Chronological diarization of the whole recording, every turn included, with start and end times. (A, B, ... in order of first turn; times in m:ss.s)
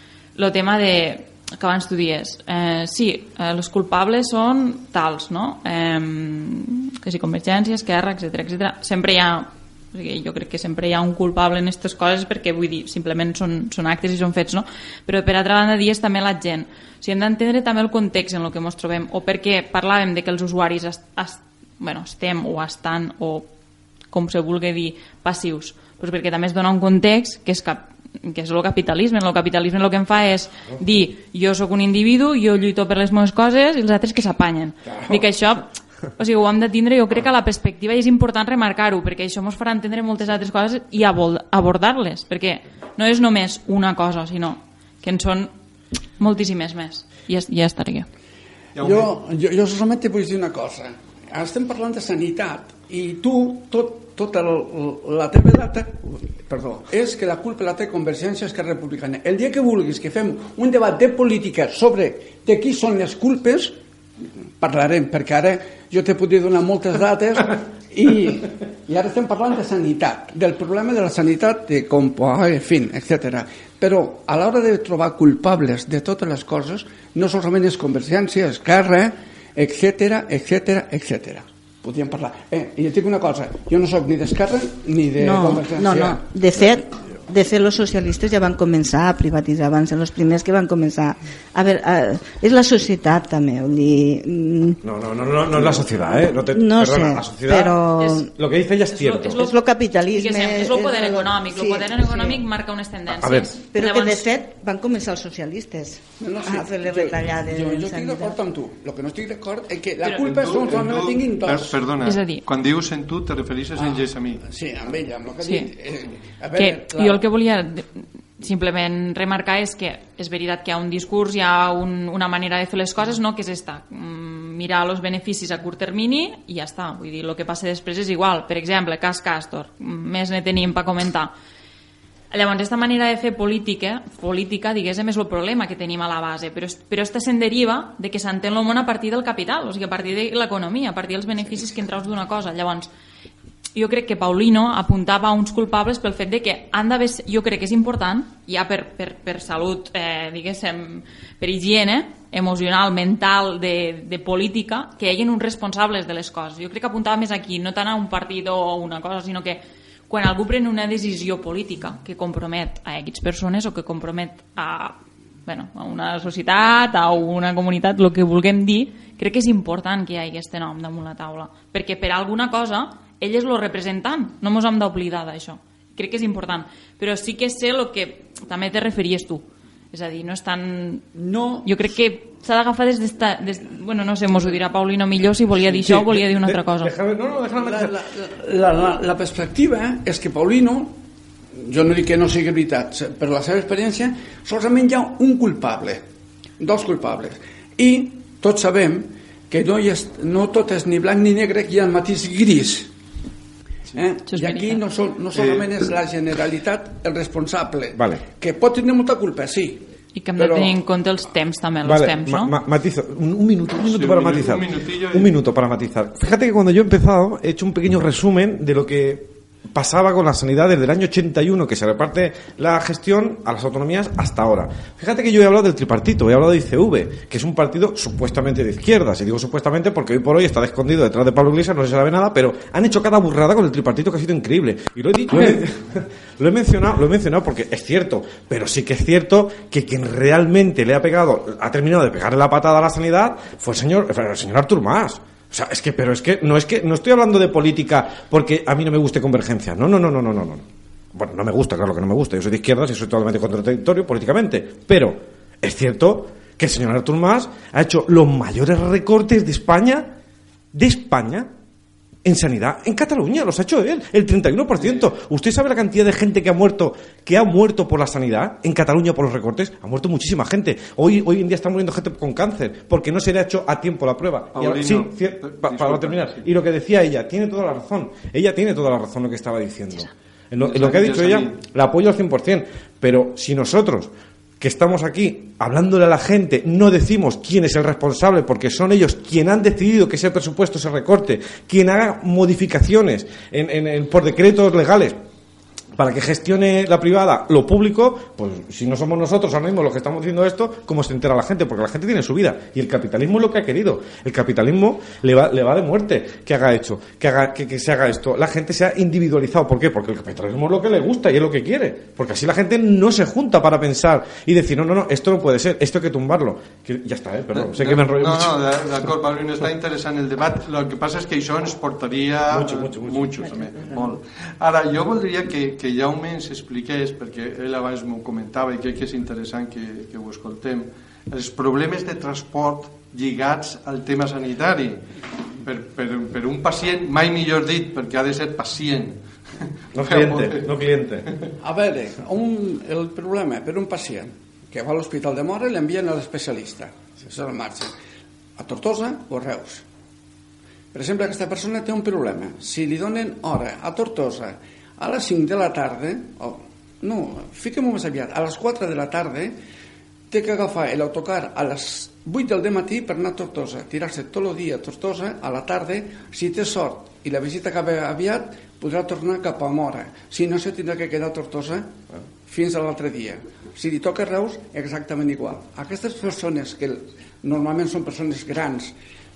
0:00.4-0:23.5 A
0:24.1-0:45.5 A
0:46.2-0:48.1 A
0:48.8-0:49.1 B
0:48.8-1:03.8 C
1:04.6-1:26.3 C
1:25.2-1:34.8 D
1:34.8-1:39.4 E
1:36.4-1:38.3 D
1:38.0-1:38.2 A
1:38.9-1:44.3 A
1:39.3-1:42.4 D
1:43.1-1:43.6 E
1:43.7-1:48.4 D
1:46.2-1:51.9 C
1:50.2-1:54.4 B
1:52.0-1:52.4 A
1:53.7-1:57.2 C
1:55.4-1:55.7 A
1:56.5-2:11.3 A
2:12.3-2:22.9 A
2:23.7-3:01.1 A
3:01.2-3:01.6 C
3:01.6-3:06.9 A
3:05.7-3:08.0 E
3:07.5-3:11.0 C
3:11.5-3:16.0 C
3:16.6-3:22.9 C
3:23.9-3:30.7 C
3:24.2-3:24.8 A
3:27.9-3:28.2 E
3:30.1-3:32.5 A
3:31.8-4:20.1 E
3:33.8-3:35.3 B
4:20.7-4:21.5 E
4:22.2-4:55.2 E
4:34.5-4:36.5 B
4:40.6-4:41.6 B
4:56.0-5:18.6 E
5:17.5-5:35.0 B
5:22.5-5:24.0 E
5:35.6-5:39.2 B
5:39.9-5:41.3 E
5:40.0-5:40.8 B
5:41.6-5:47.9 C
5:48.6-5:49.8 C
5:50.9-5:59.6 C
6:00.3-6:18.9 C